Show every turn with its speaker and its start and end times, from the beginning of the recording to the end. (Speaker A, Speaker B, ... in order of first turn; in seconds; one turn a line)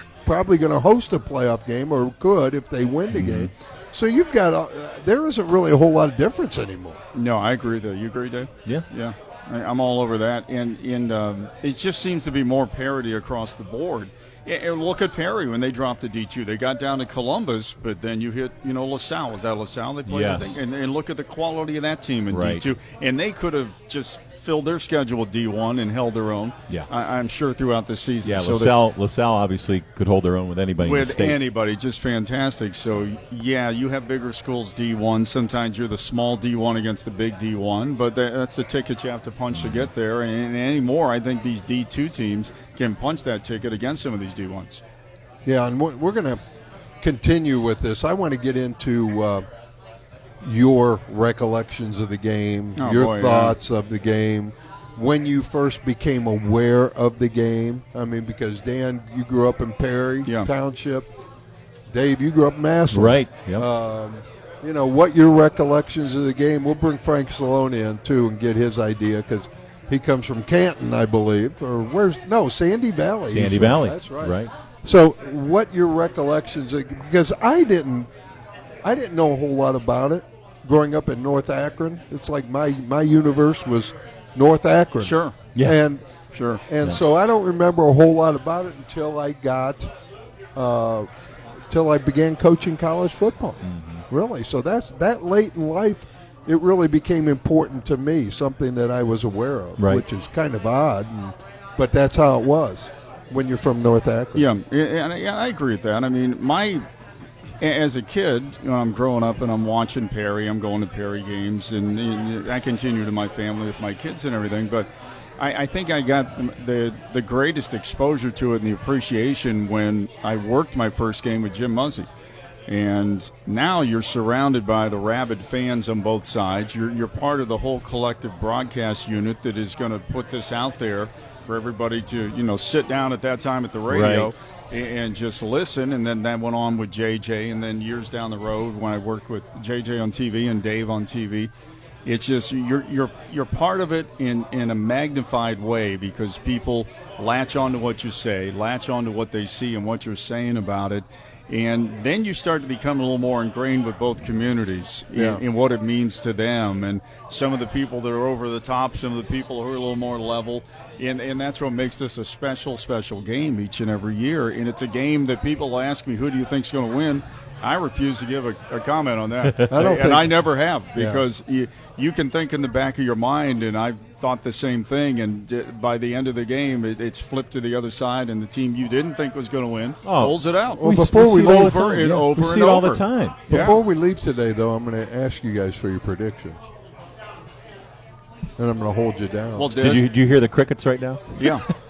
Speaker A: 0.2-7.0
Speaker B: 3.1-3.5
Speaker C: 7.1-28.8
Speaker B: 20.1-20.6
Speaker B: 22.3-22.7
Speaker B: 28.2-31.4
Speaker C: 30.8-44.8
Speaker B: 39.5-39.9
Speaker A: 45.5-46.4
Speaker A: 47.0-49.5
Speaker A: 50.4-61.1
Speaker C: 52.8-53.5
Speaker A: 61.9-78.1
Speaker B: 62.9-63.7
Speaker B: 73.3-74.5
Speaker A: 78.8-86.0
Speaker C: 85.0-85.4
Speaker C: 86.3-86.6
Speaker A: 86.7-89.9
Speaker A: 90.6-91.1
Speaker A: 91.7-104.5
Speaker B: 93.6-94.0
Speaker B: 99.8-100.0
Speaker C: 104.3-106.8
Speaker C: 107.6-122.1
Speaker C: 122.7-141.5
Speaker B: 133.9-134.3
Speaker C: 142.1-183.8
Speaker A: 155.1-155.4
Speaker A: 169.7-170.4
Speaker A: 171.0-171.2
Speaker B: 180.0-183.7
Speaker A: 180.7-181.7
Speaker A: 183.5-186.6
Speaker A: 188.6-189.8
Speaker C: 189.6-190.0
Speaker B: 189.8-191.7
Speaker C: 191.4-191.7